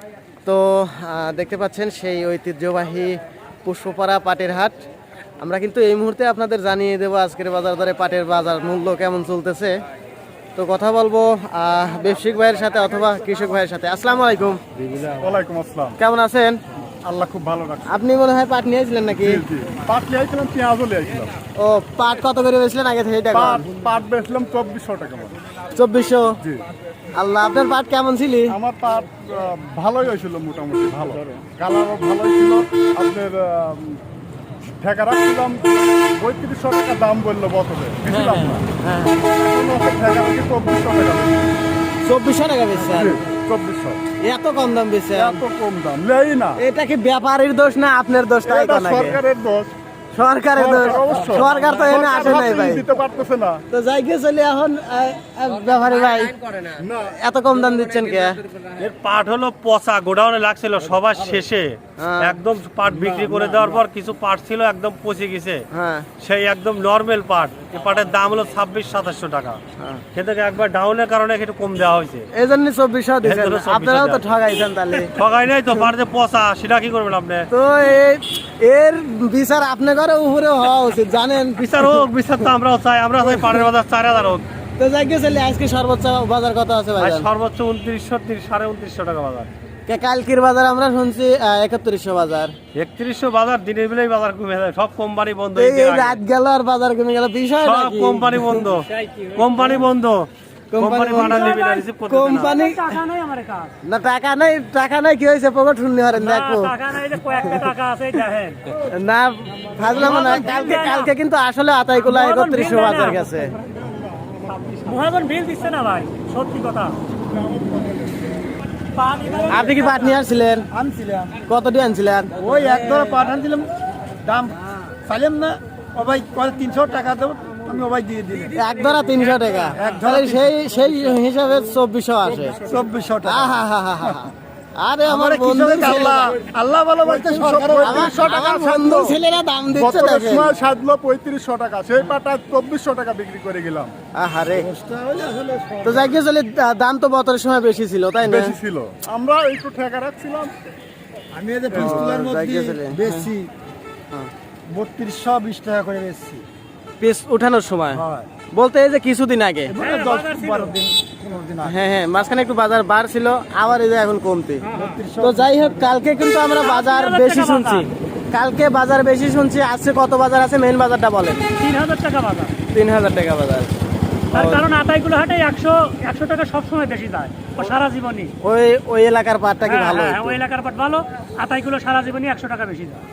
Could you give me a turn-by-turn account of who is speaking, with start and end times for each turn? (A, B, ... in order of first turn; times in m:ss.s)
0:00.4-0:04.8 A
0:05.4-0:09.8 A
0:10.6-0:14.6 A
0:15.1-0:16.0 B
0:16.0-0:16.6 A
0:17.0-0:18.0 B
0:17.9-0:19.4 A
0:19.2-0:21.3 B
0:21.6-0:23.6 A
0:23.3-0:25.4 B
0:25.7-0:26.4 A
0:27.2-0:28.6 A
0:28.5-0:34.0 B
0:34.8-0:38.7 B
0:38.1-0:39.2 A
0:39.4-0:41.6 B
0:42.0-0:43.2 A
0:42.9-0:44.0 B
0:44.2-0:45.4 A
0:45.2-0:46.6 B
0:46.6-0:49.2 A
0:48.4-0:49.7 B
0:50.1-0:52.8 A
0:50.6-0:53.6 B
0:53.7-0:56.4 A
0:56.8-0:57.0 B
0:57.0-0:58.4 A
0:58.8-1:05.6 C
1:02.0-1:02.4 A
1:05.7-1:06.1 A
1:06.2-1:09.6 C
1:10.1-1:12.3 C
1:12.3-1:15.1 A
1:13.2-1:14.2 C
1:14.9-1:17.5 C
1:17.5-1:22.0 A
1:21.6-1:24.5 C
1:24.8-1:27.3 A
1:27.0-1:29.5 C
1:29.9-1:32.5 A
1:32.7-1:36.2 C
1:35.5-1:38.7 A
1:37.6-1:42.6 C
1:40.7-1:43.0 A
1:42.4-1:43.7 D
1:43.8-1:46.7 A
1:46.1-1:48.6 D
1:48.9-1:53.5 A
1:50.0-1:51.1 D
1:52.0-1:53.3 D
1:53.8-1:54.9 B
1:54.5-1:57.0 D
1:57.5-1:58.0 B
1:58.9-1:59.9 D
1:59.5-2:00.7 A
2:00.7-2:01.4 E
2:01.5-2:02.3 A
2:02.3-2:03.7 E
2:04.2-2:08.6 E
2:08.5-2:12.6 A
2:09.7-2:10.5 E
2:12.4-2:12.8 B
2:12.7-2:13.6 E
2:13.2-2:16.4 A
2:15.0-2:18.5 E
2:16.7-2:19.2 B
2:17.8-2:20.5 A
2:19.7-2:24.0 B
2:24.2-2:24.7 A
2:24.6-2:26.2 E
2:25.8-2:28.6 A
2:28.2-2:30.6 B
2:31.3-2:33.5 E
2:31.7-2:32.1 B
2:31.8-2:33.3 A
2:34.7-2:36.4 E
2:37.0-2:39.8 A
2:37.9-2:38.3 E
2:39.7-2:41.8 E
2:39.8-2:40.7 D
2:41.6-2:44.7 A
2:44.7-2:45.8 E
2:45.2-2:51.5 A
2:46.6-2:47.9 D
2:51.6-2:52.5 D
2:52.7-2:53.7 A
2:54.3-2:54.6 A
2:54.3-2:58.3 D
2:58.4-3:00.4 A
2:59.6-3:03.0 D